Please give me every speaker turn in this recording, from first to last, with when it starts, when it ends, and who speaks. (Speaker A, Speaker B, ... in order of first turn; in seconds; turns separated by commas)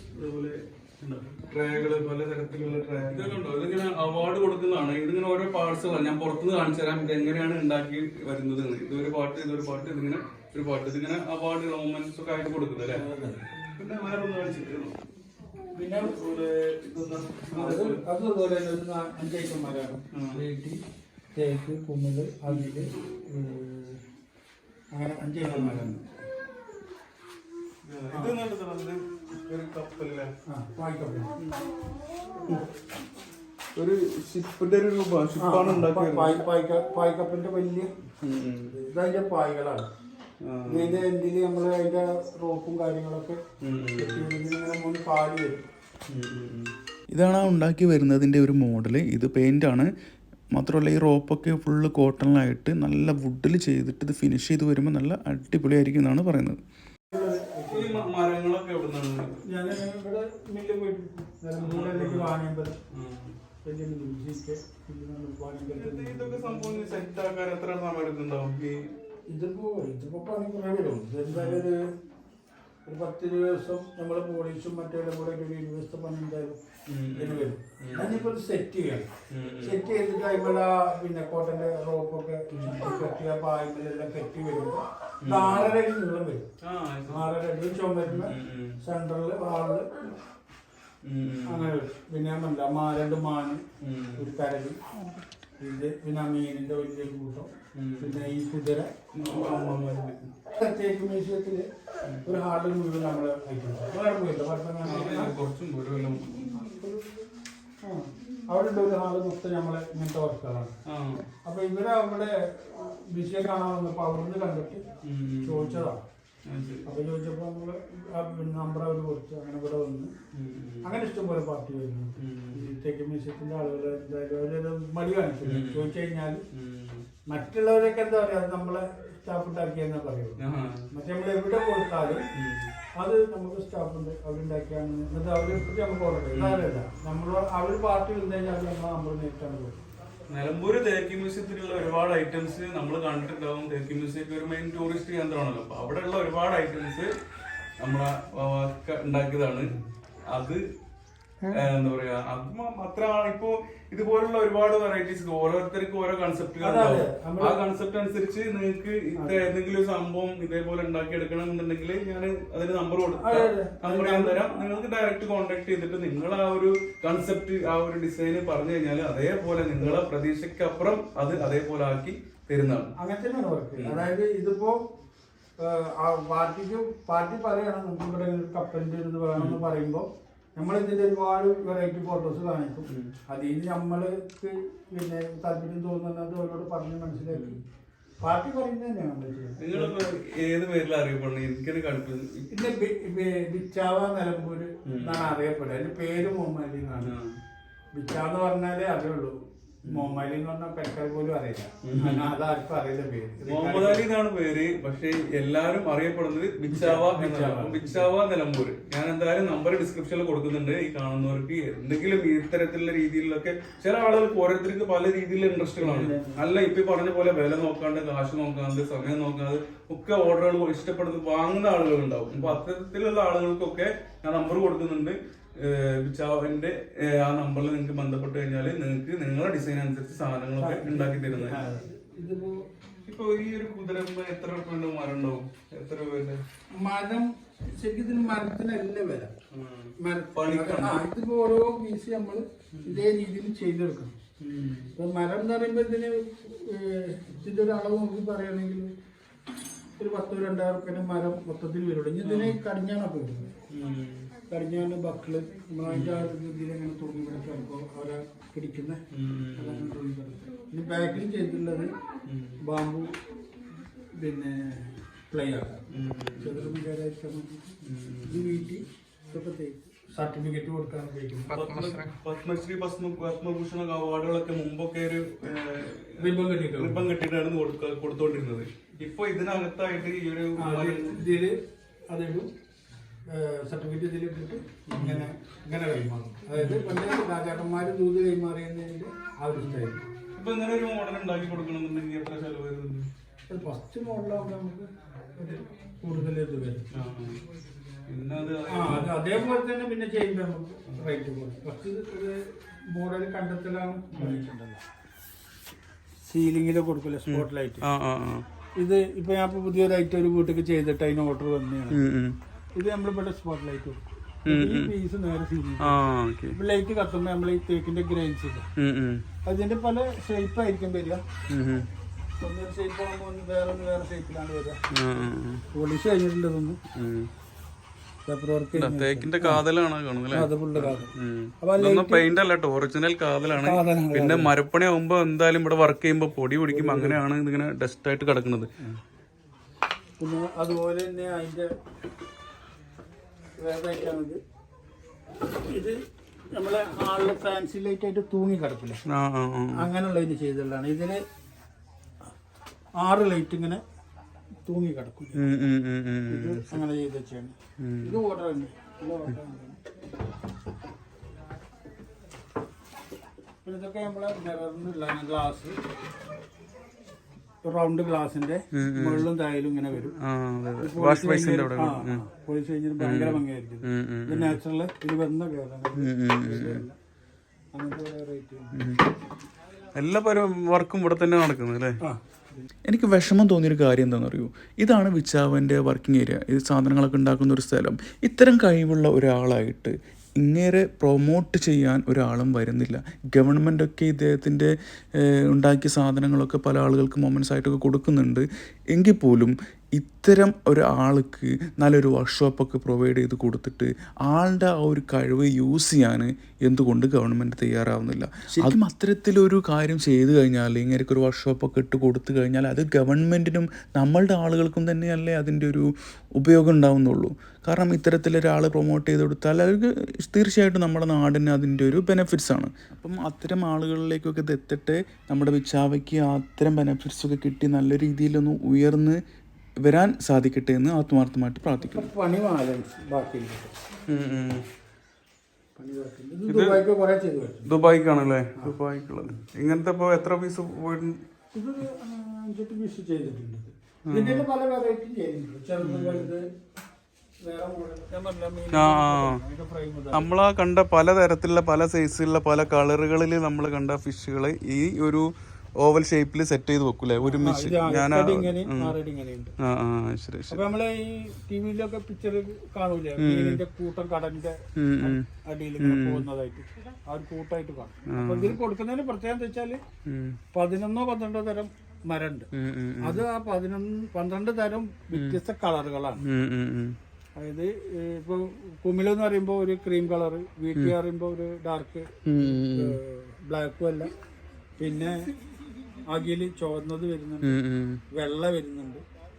Speaker A: 0.1-13.0, Speaker B: 12.9-13.4, Speaker A: 13.7-15.0, Speaker B: 15.7-16.2, Speaker A: 15.9-18.0, Speaker B: 17.5-20.8, Speaker A: 20.1-20.4, Speaker B: 21.3-24.0, Speaker A: 22.5-22.9, Speaker B: 24.9-26.1, Speaker A: 25.4-25.9, Speaker A: 27.8-30.3, Speaker B: 28.1-28.4, Speaker B: 30.5-31.4, Speaker A: 31.4-31.6, Speaker A: 33.8-36.4, Speaker B: 35.4-37.9, Speaker A: 38.2-38.8, Speaker B: 38.7-39.9, Speaker A: 40.4-41.0, Speaker B: 40.7-43.4, Speaker A: 43.6-44.3, Speaker B: 44.0-45.7, Speaker A: 46.1-46.7, Speaker C: 47.1-49.9, Speaker C: 50.5-56.6, Speaker B: 57.1-58.1, Speaker A: 57.7-59.4, Speaker B: 59.4-62.8, Speaker A: 61.6-62.4, Speaker A: 62.9-63.4, Speaker B: 63.6-67.0, Speaker A: 65.7-68.9, Speaker B: 69.3-71.9, Speaker A: 71.3-71.7, Speaker B: 72.8-76.6, Speaker A: 76.9-78.3, Speaker B: 77.1-86.5, Speaker A: 79.3-79.8, Speaker A: 82.5-82.9, Speaker A: 85.2-85.8, Speaker A: 86.6-87.2, Speaker B: 87.1-90.1, Speaker A: 88.1-88.8, Speaker A: 91.0-91.7, Speaker B: 91.5-93.6, Speaker A: 93.8-94.3, Speaker B: 94.2-94.8, Speaker B: 95.6-98.9, Speaker A: 97.7-98.2, Speaker A: 99.1-100.3, Speaker B: 100.5-101.7, Speaker A: 102.0-102.3, Speaker B: 102.2-105.3, Speaker A: 104.8-106.6, Speaker B: 106.6-107.1, Speaker B: 107.8-110.7, Speaker A: 110.8-111.2, Speaker B: 111.4-114.8, Speaker A: 115.0-115.9, Speaker B: 115.4-116.0, Speaker A: 116.5-116.9, Speaker B: 116.8-120.1, Speaker A: 120.3-120.9, Speaker B: 120.8-126.4, Speaker A: 122.2-122.7, Speaker A: 125.4-125.9, Speaker A: 126.5-127.1, Speaker B: 127.2-132.2, Speaker A: 130.4-130.9, Speaker A: 132.3-132.7, Speaker B: 132.9-139.8, Speaker A: 136.3-136.7, Speaker A: 140.3-147.1, Speaker A: 147.8-149.7, Speaker A: 150.3-150.6, Speaker B: 151.4-151.7, Speaker A: 151.5-172.9, Speaker B: 156.6-157.6, Speaker B: 159.2-159.5, Speaker B: 163.1-164.4, Speaker B: 173.0-174.9, Speaker A: 173.8-174.1, Speaker B: 175.6-187.6, Speaker A: 179.3-179.6, Speaker A: 182.9-183.1, Speaker A: 187.3-187.6, Speaker B: 188.2-190.0, Speaker A: 189.6-192.6, Speaker B: 192.5-197.2, Speaker A: 194.8-195.3, Speaker A: 197.0-197.4, Speaker B: 197.9-204.1, Speaker A: 199.8-200.2, Speaker A: 201.8-202.3, Speaker A: 203.4-231.7, Speaker B: 206.7-208.1, Speaker B: 215.8-216.5, Speaker B: 230.6-232.7, Speaker A: 233.1-236.4, Speaker B: 236.7-239.3, Speaker A: 239.5-241.0, Speaker B: 240.0-244.2, Speaker A: 242.7-243.0, Speaker A: 244.4-244.9, Speaker B: 244.9-248.9, Speaker B: 250.0-253.5, Speaker A: 252.2-252.6, Speaker A: 253.7-254.3, Speaker B: 254.5-259.0, Speaker A: 255.8-256.3, Speaker A: 259.1-260.0, Speaker B: 259.6-261.9, Speaker A: 262.3-262.6, Speaker B: 262.6-263.2, Speaker B: 264.1-265.8, Speaker A: 265.9-266.8, Speaker B: 266.4-271.8, Speaker A: 267.8-268.7, Speaker A: 271.5-281.2, Speaker B: 276.2-277.1, Speaker B: 280.6-282.5, Speaker B: 283.3-290.1, Speaker A: 284.9-285.3, Speaker A: 286.6-287.0, Speaker A: 289.6-293.1, Speaker B: 293.5-296.9, Speaker A: 296.9-297.4, Speaker A: 298.1-299.2, Speaker B: 298.7-304.8, Speaker A: 304.1-304.5, Speaker B: 306.2-307.9, Speaker A: 307.2-308.4, Speaker B: 308.8-312.1, Speaker A: 311.9-312.4, Speaker B: 312.8-316.0, Speaker A: 314.5-314.9, Speaker A: 315.8-316.6, Speaker B: 316.5-318.7, Speaker A: 318.8-319.2, Speaker B: 319.4-321.2, Speaker A: 321.5-321.9, Speaker B: 322.4-324.8, Speaker A: 324.9-325.6, Speaker B: 325.7-326.8, Speaker A: 326.9-327.3, Speaker B: 328.2-329.6, Speaker A: 328.7-338.7, Speaker B: 330.3-332.3, Speaker B: 333.6-334.5, Speaker B: 336.7-337.2, Speaker B: 340.2-341.7, Speaker B: 343.6-344.4, Speaker B: 345.4-349.0, Speaker A: 349.1-349.9, Speaker B: 349.7-351.2, Speaker B: 353.0-353.8, Speaker B: 354.6-355.5, Speaker A: 355.3-356.7, Speaker B: 356.3-359.8, Speaker A: 357.8-358.2, Speaker B: 363.6-365.8, Speaker B: 367.6-370.2, Speaker A: 368.7-369.3, Speaker A: 370.1-372.2, Speaker B: 370.8-377.0, Speaker A: 373.0-374.6, Speaker A: 376.0-376.8, Speaker B: 377.7-378.9, Speaker A: 379.9-382.0, Speaker B: 382.0-382.7, Speaker C: 382.8-429.2, Speaker C: 429.8-432.1, Speaker B: 431.8-433.7, Speaker A: 434.1-434.7, Speaker B: 435.8-437.8, Speaker A: 436.5-436.8, Speaker A: 437.7-441.2, Speaker B: 438.6-439.3, Speaker B: 441.5-446.5, Speaker A: 444.1-444.5, Speaker A: 445.8-446.3, Speaker B: 447.4-450.3, Speaker A: 448.7-449.4, Speaker A: 450.1-458.9, Speaker B: 457.2-459.5, Speaker A: 459.6-460.6, Speaker B: 460.5-469.8, Speaker A: 463.2-463.6, Speaker A: 464.8-465.3, Speaker A: 465.8-466.2, Speaker A: 468.1-468.6, Speaker A: 470.1-470.4, Speaker B: 470.5-472.5, Speaker A: 472.5-473.2, Speaker B: 473.0-476.2, Speaker A: 475.1-475.4, Speaker A: 476.2-477.0, Speaker B: 477.4-484.1, Speaker A: 482.2-483.0, Speaker B: 484.8-485.3, Speaker B: 486.1-489.0, Speaker A: 487.4-488.0